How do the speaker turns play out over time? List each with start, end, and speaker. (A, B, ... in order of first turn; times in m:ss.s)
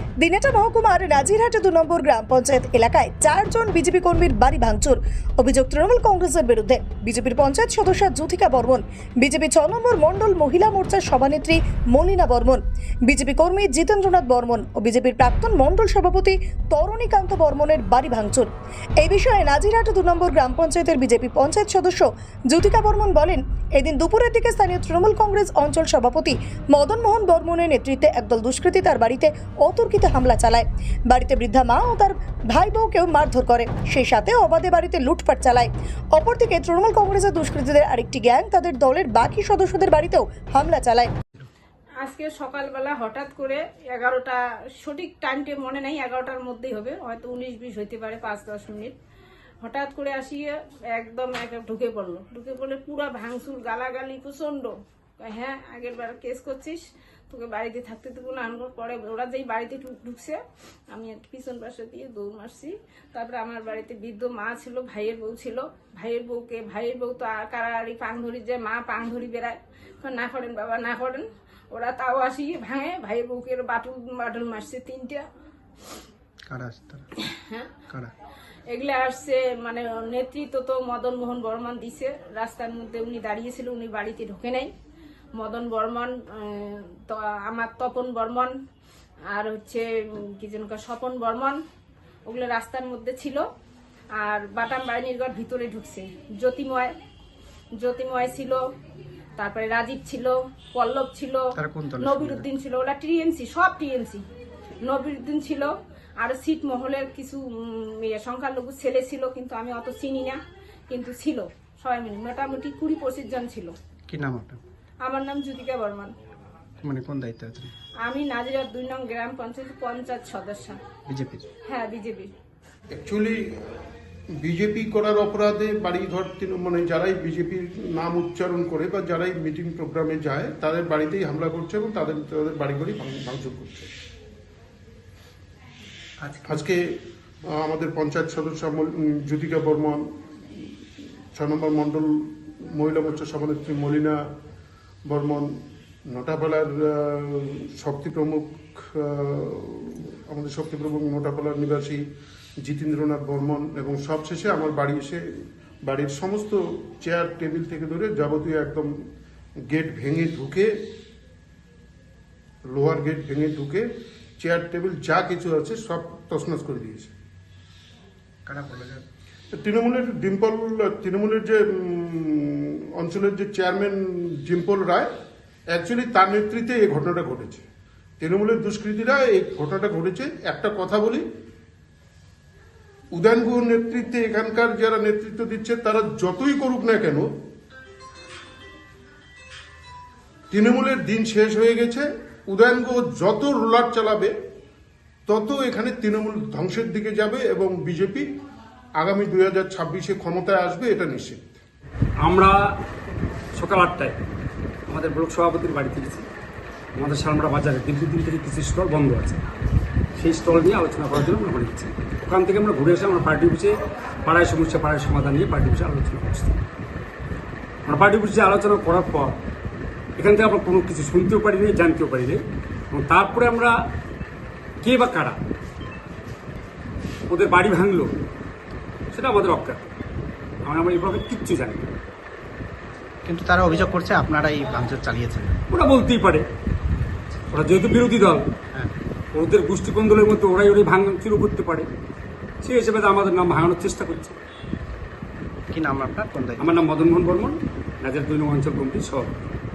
0:00.2-0:18.5 A
0:19.0-0:41.1 A
0:42.0-0:49.0 B
0:49.6-1:00.4 B
1:00.9-1:15.2 B
1:16.5-1:17.1 C
1:17.3-1:17.7 B
1:18.7-1:24.7 B
1:25.4-1:28.5 B
1:29.3-1:31.6 B
1:32.3-1:33.4 B
1:34.2-1:37.0 B
1:37.8-1:38.6 B
1:39.4-1:44.2 B
1:41.6-1:42.5 C
1:44.8-1:53.8 B
1:54.1-1:54.6 C
1:55.0-1:56.2 B
1:56.8-1:57.7 C
1:58.0-2:00.8 B
2:01.1-2:01.5 C
2:01.7-2:02.3 B
2:02.9-2:03.8 D
2:04.4-2:13.9 D
2:16.2-2:16.6 C
2:16.5-2:24.2 D
2:25.1-2:32.0 D
2:32.6-2:38.9 D
2:39.7-2:40.7 D
2:42.7-2:43.9 D
2:44.4-2:47.1 D
2:48.5-2:49.0 C
2:49.5-2:55.1 D
2:55.7-2:57.6 D
2:58.2-3:01.2 D
3:03.1-3:07.3 D
3:10.5-3:14.3 D
3:15.3-3:18.3 D
3:19.0-3:21.6 D
3:22.2-3:22.6 E
3:23.6-3:24.2 E
3:24.9-3:26.3 E
3:27.0-3:29.4 E
3:30.2-3:36.6 E
3:37.9-3:39.4 E
3:40.2-3:43.8 E
3:44.8-3:45.4 E
3:47.3-3:48.2 E
3:49.1-3:50.0 E
3:50.7-3:51.9 E
3:53.3-3:55.6 C
3:55.7-3:56.4 E
3:57.5-3:58.5 E
3:59.3-4:01.9 E
4:02.6-4:04.4 E
4:05.7-4:06.8 C
4:06.6-4:09.3 E